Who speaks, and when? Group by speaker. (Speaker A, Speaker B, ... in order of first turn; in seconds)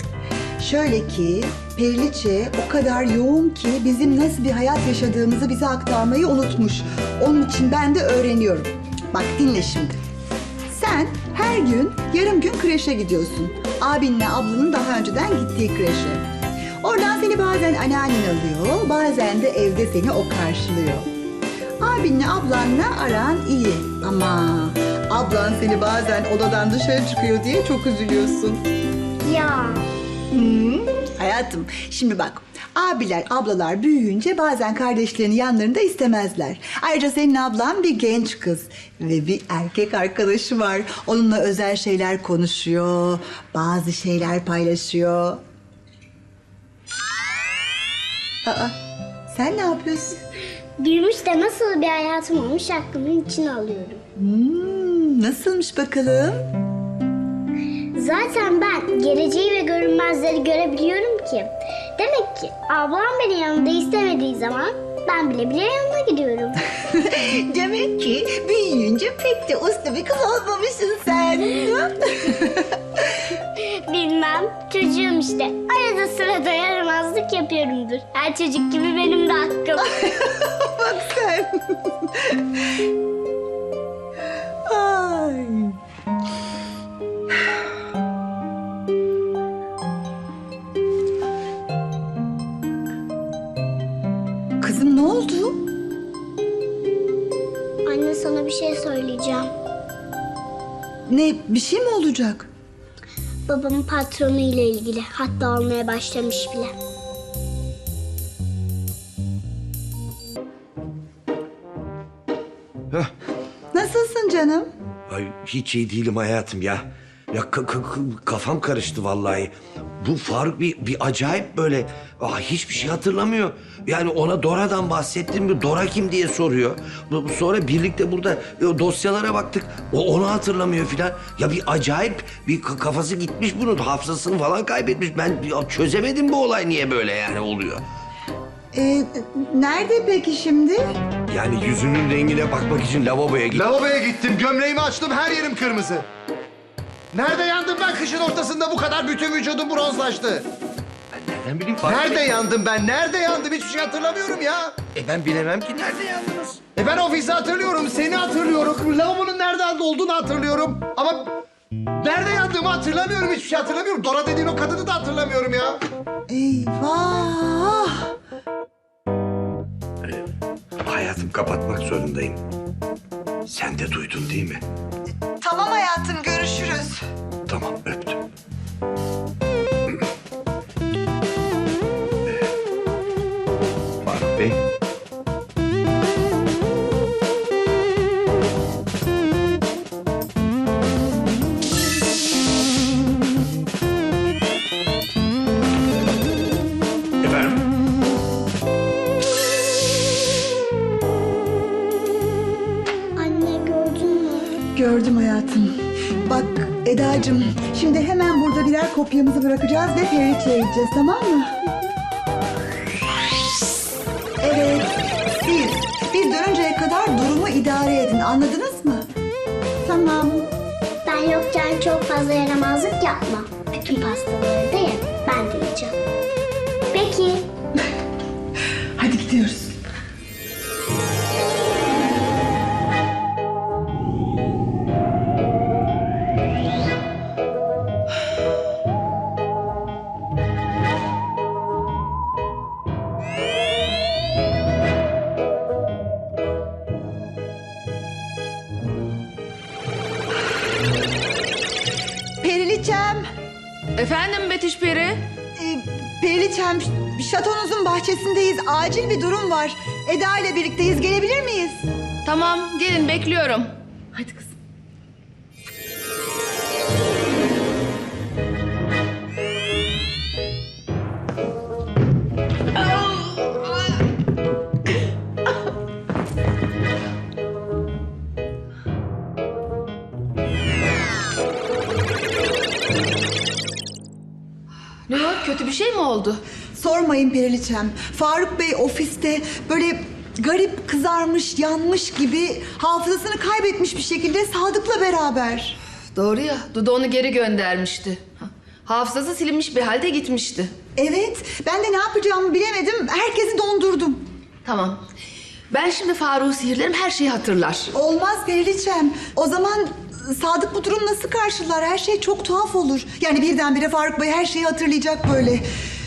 Speaker A: 0.6-10.0, 10.7-16.2, 16.8-21.1, 21.8-28.6, 30.3-45.4, 48.4-48.8, 49.3-50.2, 54.1-56.5, 66.9-72.7, 79.9-82.4, 84.7-85.8, 94.6-95.6, 101.1-102.5, 113.7-114.7, 138.7-140.9, 166.3-168.1, 175.4-177.0, 204.7-211.5, 214.4-219.1, 219.8-220.5, 229.0-229.8, 252.4-253.2, 255.6-261.9, 286.7-295.8, 300.9-304.2, 307.9-315.6
Speaker B: 29.2-29.9, 50.8-54.0, 57.9-66.6, 73.5-80.1, 97.9-99.5, 103.5-106.8, 203.2-204.6, 221.0-225.9, 226.9-227.5
Speaker C: 115.1-137.8, 141.3-143.7, 151.1-152.4, 154.9-156.6, 170.8-172.4, 173.5-174.6, 177.5-178.2, 184.0-184.6, 197.2-197.5
Speaker D: 143.5-146.1, 147.1-150.4, 151.8-155.8, 156.7-161.3, 162.0-165.8
Speaker E: 253.9-255.2, 262.2-264.3, 285.1-286.4, 296.1-300.7, 304.6-305.0, 305.7-307.9